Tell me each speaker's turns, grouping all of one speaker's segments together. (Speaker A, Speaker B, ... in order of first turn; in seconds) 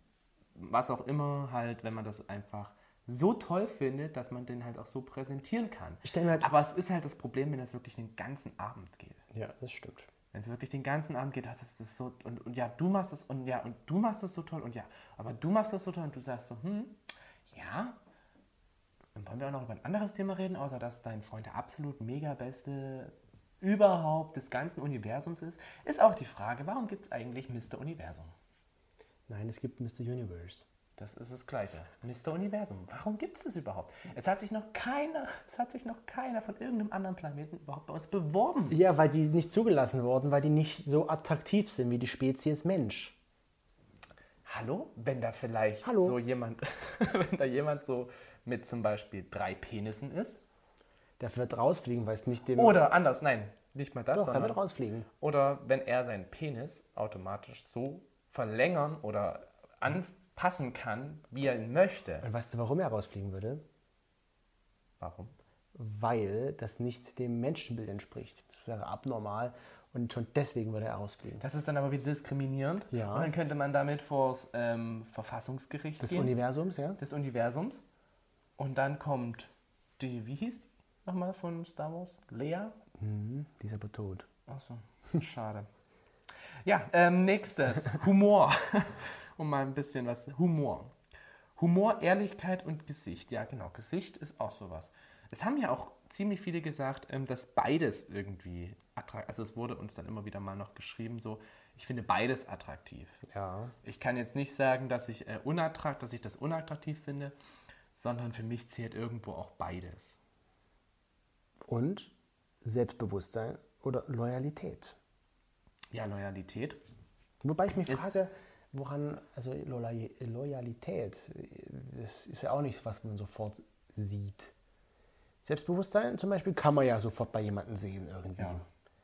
Speaker A: 0.6-9.2, 10.3-17.0, 17.5-18.0, 19.1-28.3, 31.0-38.8, 44.5-50.4, 52.6-54.6, 55.2-62.3, 65.0-65.3, 71.4-76.3, 77.0-77.8, 78.6-82.8, 84.5-85.7, 86.7-90.9, 91.6-103.2, 103.8-107.3, 108.0-110.2, 115.9-116.8, 117.9-118.2, 128.4-128.6
Speaker B: 6.0-6.5, 9.3-10.1, 29.3-30.7, 38.7-43.2, 45.8-46.2, 51.2-52.8, 54.1-55.1, 62.2-63.6, 65.8-71.4, 72.9-73.3, 76.0-77.0, 83.0-84.3, 103.3-103.8, 111.7-112.1, 112.6-115.0, 117.4-124.5, 125.4-128.6